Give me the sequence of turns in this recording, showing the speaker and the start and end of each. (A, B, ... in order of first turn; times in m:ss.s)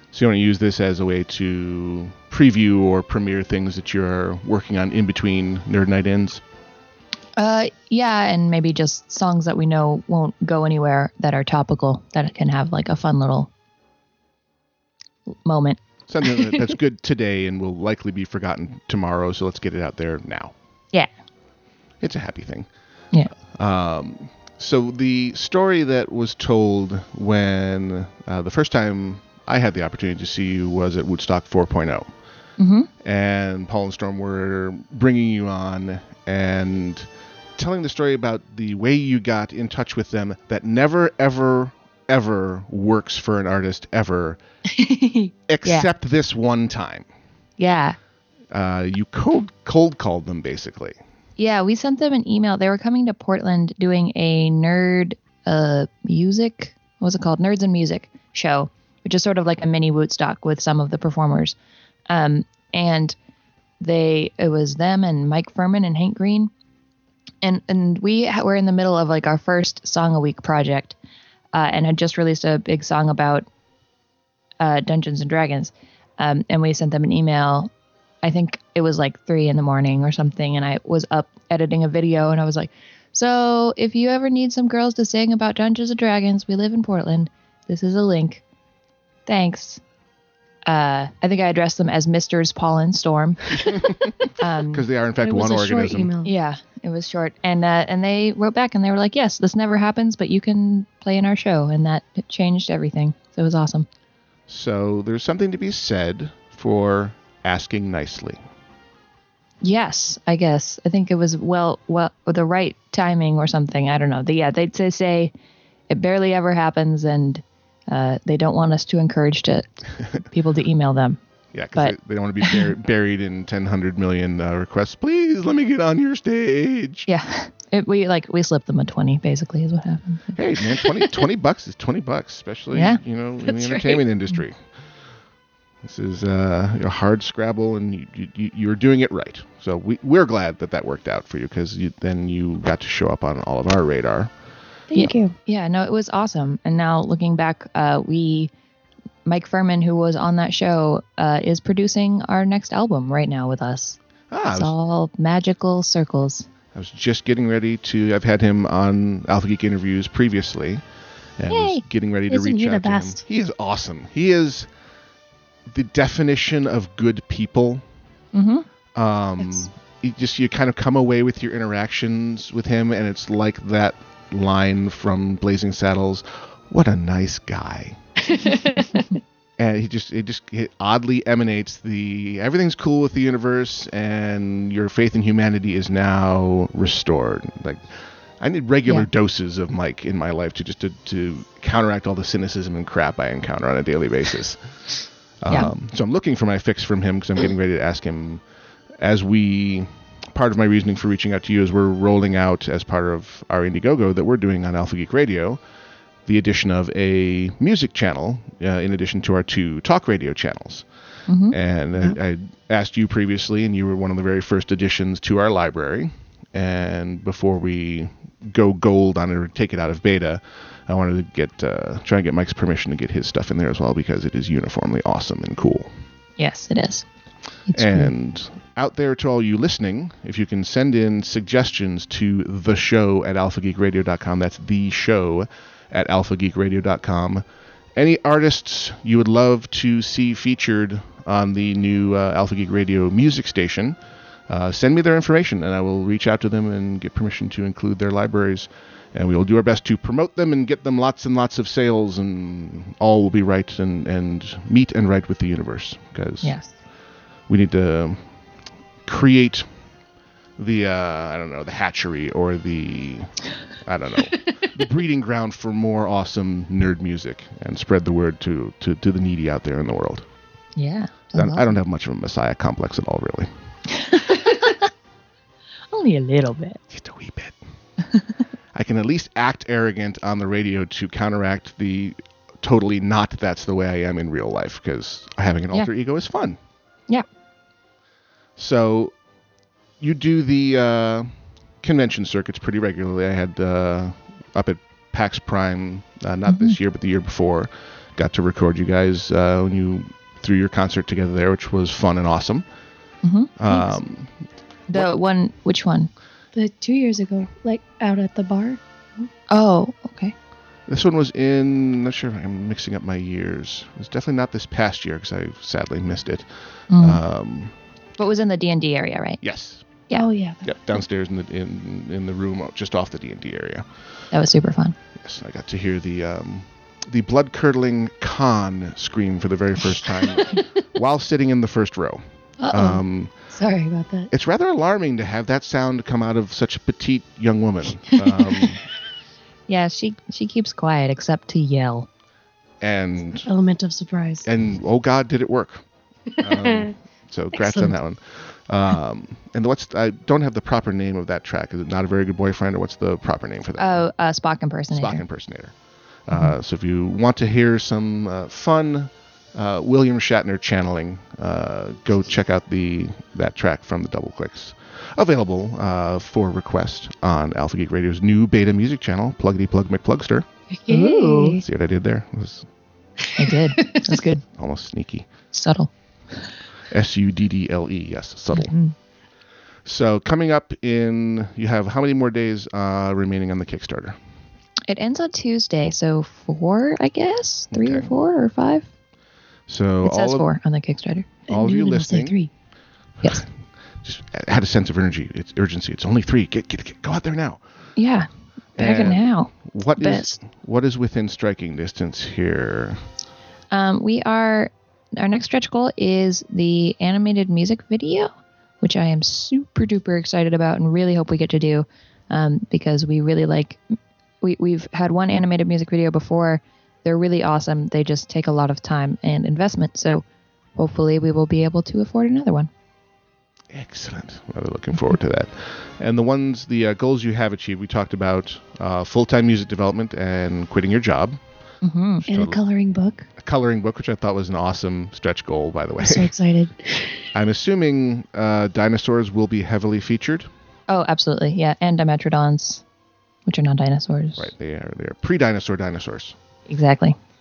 0:00.1-0:06.4 A
0:07.4-0:13.5 B
0:15.3-0:15.8 B
0:16.1-0:20.5 A
0:22.0-0:22.7 A
0:23.5-0:32.1 A
0:32.6-0:32.9 B
0:33.0-0:44.4 A
0:44.7-0:45.9 B
0:45.5-0:47.1 A
0:47.6-0:48.0 B
0:48.5-0:51.0 A
0:51.4-1:01.6 B
1:02.1-1:03.2 B
1:03.8-1:06.5 B
1:07.4-1:11.0 B
1:11.5-1:13.5 B
1:14.6-1:17.7 B
1:18.2-1:28.4 B
1:29.3-1:29.8 B
1:30.7-1:33.8 B
1:34.4-1:34.9 B
1:34.7-1:36.1 A
1:35.2-1:36.3 C
1:36.2-1:43.9 B
1:44.5-1:48.4 A
1:49.6-1:55.3 B
1:55.9-2:01.2 B
2:01.5-2:07.1 A
2:01.8-2:02.6 B
2:07.1-2:10.4 B
2:10.4-2:15.0 A
2:12.7-2:13.0 B
2:13.5-2:14.0 C
2:15.8-2:24.3 A
2:24.9-2:25.3 C
2:25.0-2:28.5 B
2:29.2-2:34.0 B
2:34.3-2:34.7 A
2:34.5-2:36.5 B
2:36.7-2:40.8 A
2:41.4-2:44.7 A
2:41.5-2:41.8 B
2:42.3-2:43.2 C
2:45.7-2:47.8 A
2:48.3-2:48.7 B
2:49.0-2:58.0 A
2:58.3-2:59.0 C
2:59.6-3:18.4 A
3:19.0-3:25.6 A
3:26.3-3:30.9 A
3:31.3-3:31.6 B
3:31.5-3:45.9 A
3:46.4-3:47.1 B
3:47.7-3:48.1 B
3:47.7-3:57.4 A
3:58.0-4:16.6 A
4:16.4-4:16.7 B
4:17.5-4:18.3 A
4:19.0-4:19.7 A
4:20.6-4:30.3 A
4:30.8-4:31.7 B
4:31.3-4:33.5 A
4:34.0-4:34.8 B
4:35.9-4:36.8 B
4:36.9-4:37.6 A
4:38.7-4:46.6 A
4:48.6-4:49.1 A
4:50.0-5:02.6 A
4:56.5-4:56.8 B
5:03.2-5:04.0 B
5:03.6-5:04.3 A
5:04.9-5:06.1 B
5:06.5-5:08.8 C
5:09.5-5:10.3 B
5:10.9-5:17.7 A
5:16.9-5:17.2 B
5:18.2-5:19.4 B
5:19.4-5:20.0 A
5:20.1-5:20.8 C
5:20.6-5:23.9 A
5:24.3-5:25.0 B
5:25.2-5:33.3 A
5:32.6-5:33.0 B
5:33.6-5:34.3 C
5:34.3-5:38.8 A
5:39.7-5:42.1 B
5:42.8-5:43.5 A
5:43.5-5:44.5 C
5:44.4-5:54.0 A
5:46.4-5:46.9 C
5:47.6-5:47.9 C
5:53.8-5:55.2 B
5:54.9-5:55.8 A
5:56.3-6:10.5 A
6:10.8-6:11.6 C
6:10.9-6:11.6 B
6:11.6-6:12.7 A
6:13.4-6:14.4 B
6:14.5-6:15.3 A
6:15.5-6:15.9 B
6:16.9-6:18.7 A
6:18.5-6:19.0 B
6:19.8-6:24.2 A
6:24.9-6:28.9 B
6:27.7-6:28.1 A
6:29.7-6:30.5 A
6:30.0-6:31.4 B
6:31.5-6:32.4 A
6:31.5-6:32.5 C
6:33.2-6:37.6 A
6:38.0-6:40.3 B
6:38.8-6:43.1 A
6:43.7-6:53.8 B
6:54.4-7:00.2 B
7:00.8-7:02.7 B
7:03.7-7:11.4 A
7:11.8-7:12.2 B
7:12.3-7:13.3 C
7:12.3-7:12.6 A
7:13.4-7:16.3 A
7:16.0-7:17.3 C
7:17.3-7:20.5 A
7:20.9-7:22.8 B
7:23.5-7:24.5 B
7:24.4-7:26.4 A
7:26.7-7:27.2 B